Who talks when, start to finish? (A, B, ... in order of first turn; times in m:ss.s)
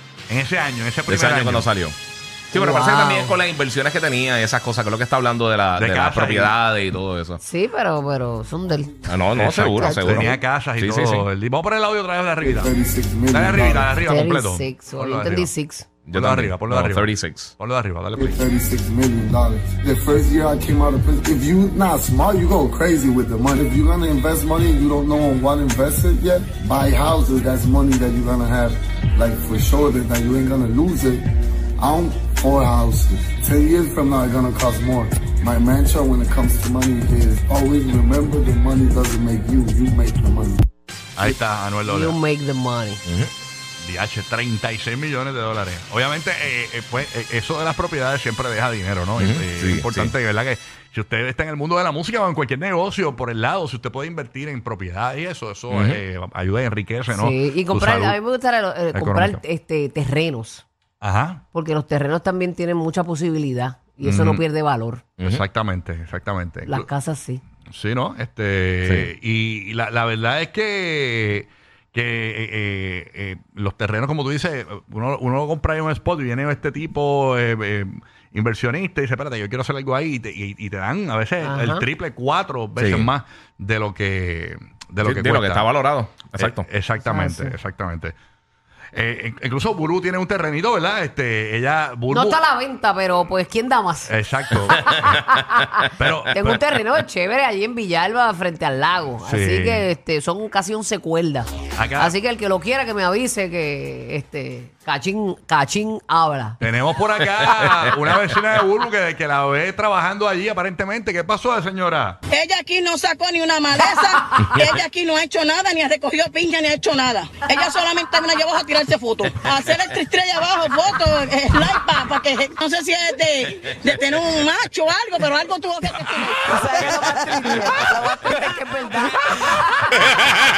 0:00.3-0:01.7 A
0:01.1-0:02.0 B
0:02.5-0:07.4 B
0:02.5-0:03.4 C
0:05.8-0:06.6 A
0:07.4-0:09.1 C
0:09.1-0:11.3 B
0:09.4-0:12.7 A
0:09.8-0:10.2 C
0:12.4-0:14.0 D
0:13.3-0:15.5 A
0:14.0-0:15.9 C
0:16.1-0:17.5 B
0:16.1-0:18.5 A
0:18.2-0:31.2 D
0:31.8-0:40.6 D
0:41.2-0:42.2 A
0:41.9-0:43.0 C
0:43.0-0:43.3 B
0:43.8-0:58.2 A
0:49.2-0:50.1 B
0:55.7-0:56.0 B
0:57.1-1:00.6 C
0:58.9-0:59.4 A
1:01.0-1:01.4 A
1:01.5-1:05.1 C
1:05.2-1:06.9 A
1:06.7-1:07.4 C
1:07.7-1:25.7 A
1:08.8-1:09.1 B
1:21.4-1:21.8 C
1:22.8-1:23.1 B
1:25.0-1:26.7 B
1:26.3-1:28.2 A
1:27.0-1:27.6 C
1:28.9-1:32.4 A
1:32.1-1:34.1 C
1:34.1-1:35.1 A
1:34.7-1:46.6 C
1:34.9-1:35.2 B
1:36.0-1:36.6 A
1:39.2-1:39.9 A
1:41.8-1:42.2 A
1:46.6-1:52.2 A
1:52.3-2:06.3 E
2:06.3-2:10.0 C